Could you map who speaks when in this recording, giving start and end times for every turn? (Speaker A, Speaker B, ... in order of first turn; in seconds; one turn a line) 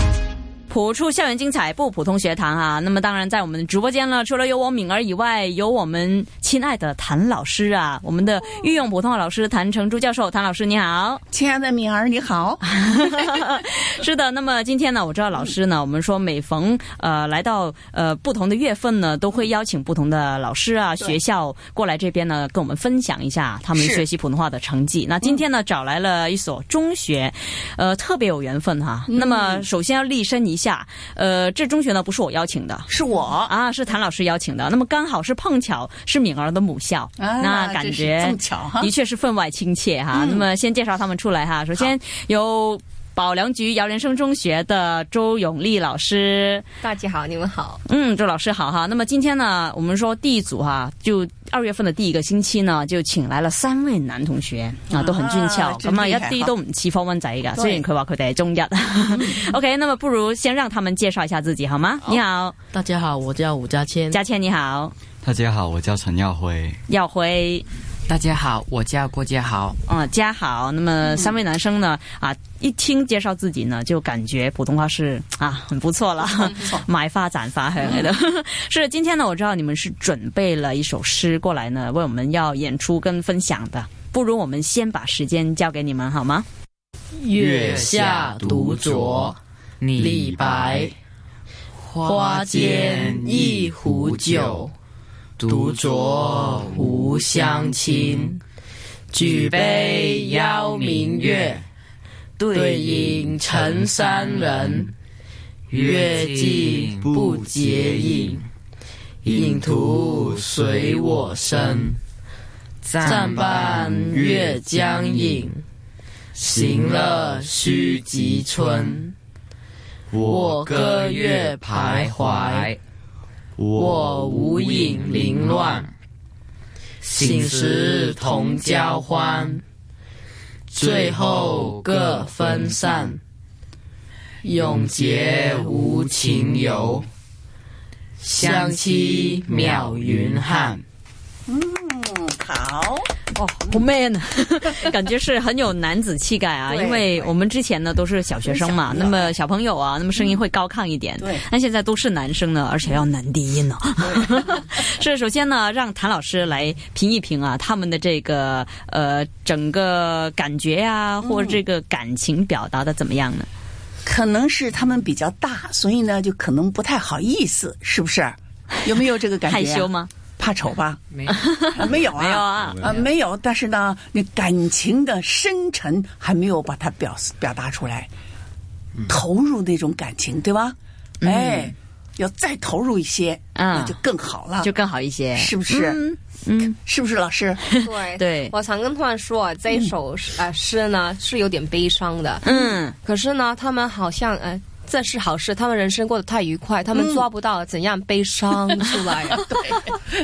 Speaker A: 0.7-11.2
Speaker B: 11.3-13.5
Speaker A: 12.8-32.9
Speaker B: 23.8-24.0
Speaker B: 29.1-29.7
Speaker B: 32.9-33.5
Speaker A: 33.5-46.7
Speaker B: 37.2-38.9
Speaker B: 40.1-40.5
Speaker C: 46.8-47.8
Speaker A: 47.9-62.6
Speaker B: 54.9-56.5
Speaker B: 57.6-57.9
Speaker D: 62.7-64.1
Speaker A: 64.1-64.9
Speaker E: 65.2-66.8
Speaker A: 66.9-67.7
Speaker F: 68.1-69.8
Speaker A: 69.9-86.5
Speaker D: 87.2-89.4
Speaker F: 87.4-89.3
Speaker F: 89.8-90.9
Speaker D: 90.0-90.9
Speaker F: 91.8-94.7
Speaker D: 92.0-94.7
Speaker F: 95.4-95.8
Speaker D: 95.5-98.4
Speaker D: 99.1-101.6
Speaker F: 102.4-103.3
Speaker D: 102.4-104.9
Speaker F: 105.7-108.2
Speaker D: 105.7-108.4
Speaker D: 109.2-112.0
Speaker F: 109.3-109.7
Speaker F: 112.8-115.1
Speaker D: 113.0-115.6
Speaker D: 116.4-119.1
Speaker E: 120.1-120.9
Speaker D: 120.2-122.7
Speaker F: 120.3-120.9
Speaker F: 121.9-122.7
Speaker E: 123.6-124.3
Speaker D: 123.8-125.9
Speaker F: 124.5-125.8
Speaker D: 127.0-129.6
Speaker F: 127.2-128.0
Speaker D: 130.7-133.2
Speaker D: 134.4-137.0
Speaker D: 138.2-140.8
Speaker B: 141.5-143.1
Speaker A: 143.3-163.5
Speaker B: 146.7-147.3
Speaker B: 148.5-149.3
Speaker B: 154.0-154.5
Speaker B: 161.2-161.6
Speaker B: 164.0-178.1
Speaker A: 169.4-170.1
Speaker A: 171.3-173.0
Speaker B: 179.1-184.7
Speaker A: 181.2-181.7
Speaker A: 183.6-184.0
Speaker A: 184.6-186.8
Speaker B: 185.4-186.0
Speaker B: 186.7-187.8
Speaker C: 187.7-199.4
Speaker A: 187.8-188.5
Speaker A: 192.4-193.0
Speaker B: 196.9-197.3
Speaker B: 198.5-200.0